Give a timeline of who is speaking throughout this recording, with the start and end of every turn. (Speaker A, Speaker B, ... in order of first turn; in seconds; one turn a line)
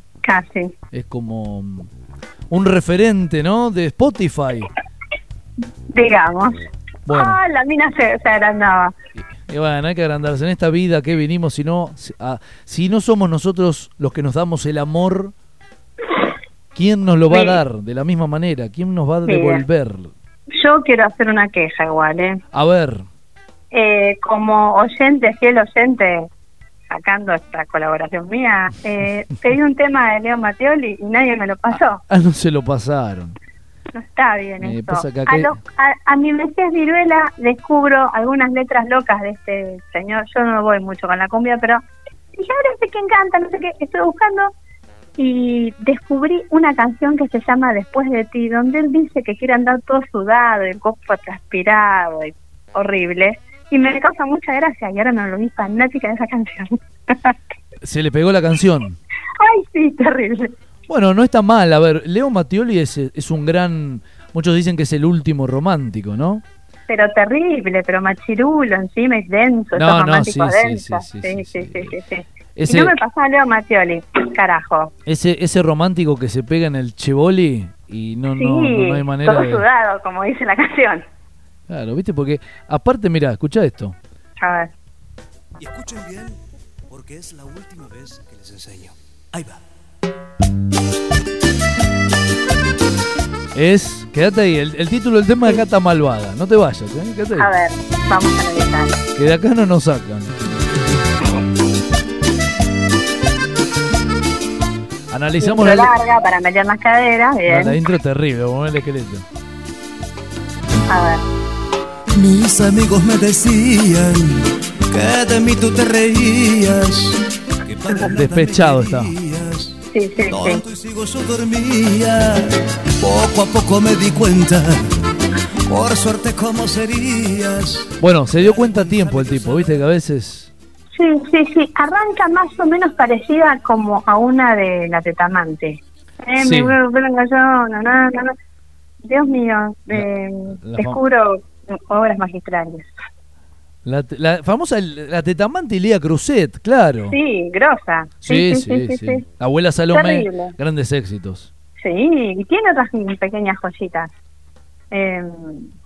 Speaker A: 0.2-0.7
Speaker B: 0.9-1.9
Speaker B: 2.5-4.7
Speaker A: 5.9-6.6
Speaker B: 7.1-7.4
Speaker A: 7.1-8.9
Speaker B: 9.4-15.3
Speaker B: 16.7-20.1
Speaker A: 17.3-17.6
Speaker A: 19.2-19.6
Speaker A: 20.5-22.4
Speaker B: 22.5-23.1
Speaker A: 23.7-26.3
Speaker A: 26.9-32.0
Speaker B: 31.7-33.4
Speaker A: 33.9-41.8
Speaker B: 34.6-35.6
Speaker A: 42.3-44.5
Speaker A: 45.2-57.4
Speaker B: 57.8-59.0
Speaker A: 59.4-60.5
Speaker B: 60.9-66.4
Speaker A: 66.9-74.9
Speaker B: 69.7-72.0
Speaker B: 72.5-72.9
Speaker B: 75.0-79.6
Speaker A: 78.4-81.0
Speaker B: 81.7-84.0
Speaker A: 84.4-84.7
Speaker C: 85.6-86.4
Speaker C: 86.9-89.6
Speaker B: 93.5-97.5
Speaker A: 97.4-99.0
Speaker B: 99.2-100.4
Speaker B: 105.1-105.9
Speaker A: 105.4-107.8
Speaker B: 107.5-109.2
Speaker A: 110.9-111.2
Speaker C: 112.1-124.9
Speaker B: 118.0-119.1
Speaker A: 119.9-120.6
Speaker C: 125.7-129.8
Speaker B: 128.0-130.5
Speaker A: 130.9-138.3
Speaker B: 136.4-136.8
Speaker A: 139.0-142.9
Speaker B: 139.9-141.0
Speaker B: 143.8-147.2
Speaker A: 147.1-149.2
Speaker B: 148.2-151.5
Speaker A: 149.9-150.6
Speaker A: 151.8-154.1
Speaker A: 154.9-155.7